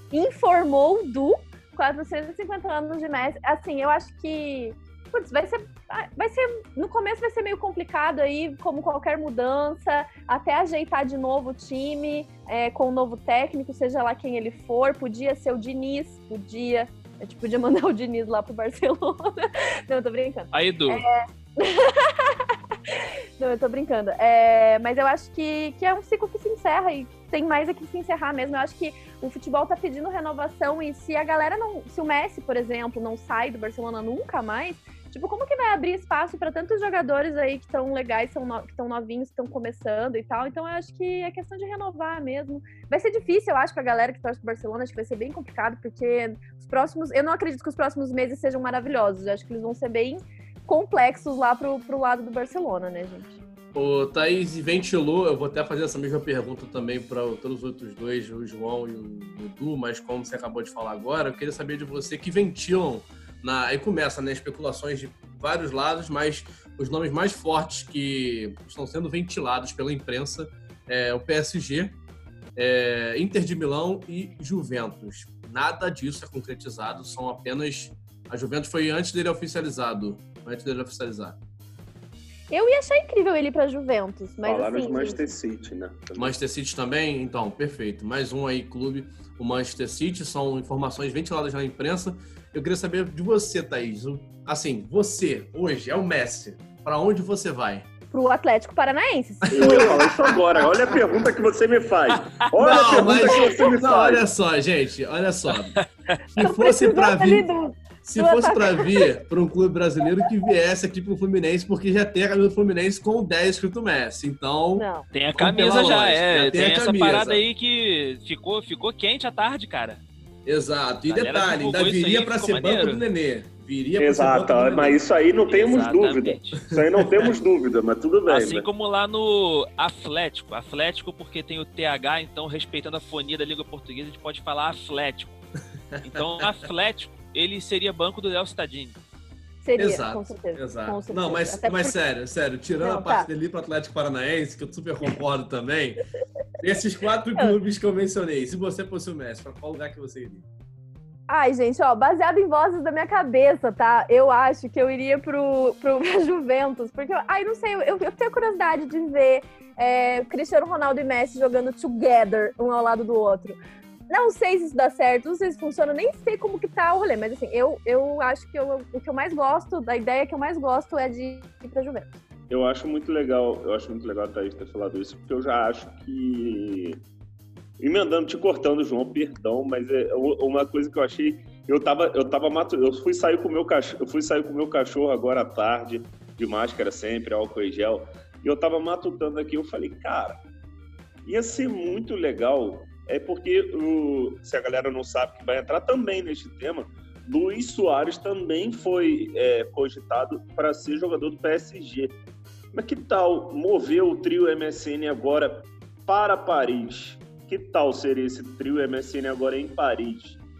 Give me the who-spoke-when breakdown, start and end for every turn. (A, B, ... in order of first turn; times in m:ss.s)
0:00.1-0:53.4 A
0:20.5-0:21.0 B
0:53.7-1:12.0 C
1:12.6-1:21.4 C
1:22.5-1:25.3 A
1:24.4-1:26.3 D
1:26.2-1:37.9 C
1:38.1-1:40.0 A
1:39.5-1:40.1 C
1:39.5-1:44.2 D
1:42.6-1:45.8 C
1:42.8-1:43.3 A
1:45.8-1:46.2 B
1:46.3-1:47.4 C
1:46.4-1:49.1 A
1:48.0-1:54.8 C
1:54.8-1:55.1 A
1:55.1-2:00.0 B
1:55.4-1:57.4 C
2:00.4-2:05.0 C
2:01.0-2:03.0 B
2:04.0-2:08.7 D
2:05.5-2:06.6 B
2:08.3-2:15.4 B
2:16.0-2:19.0 B
2:19.6-2:21.9 A
2:19.8-2:26.0 C
2:22.8-2:23.3 A
2:26.6-2:30.4 C
2:31.3-2:43.6 A
2:44.1-2:52.2 A
2:52.5-2:57.0 D
2:57.8-3:10.4 D
3:11.2-3:22.2 D
3:22.7-3:30.4 D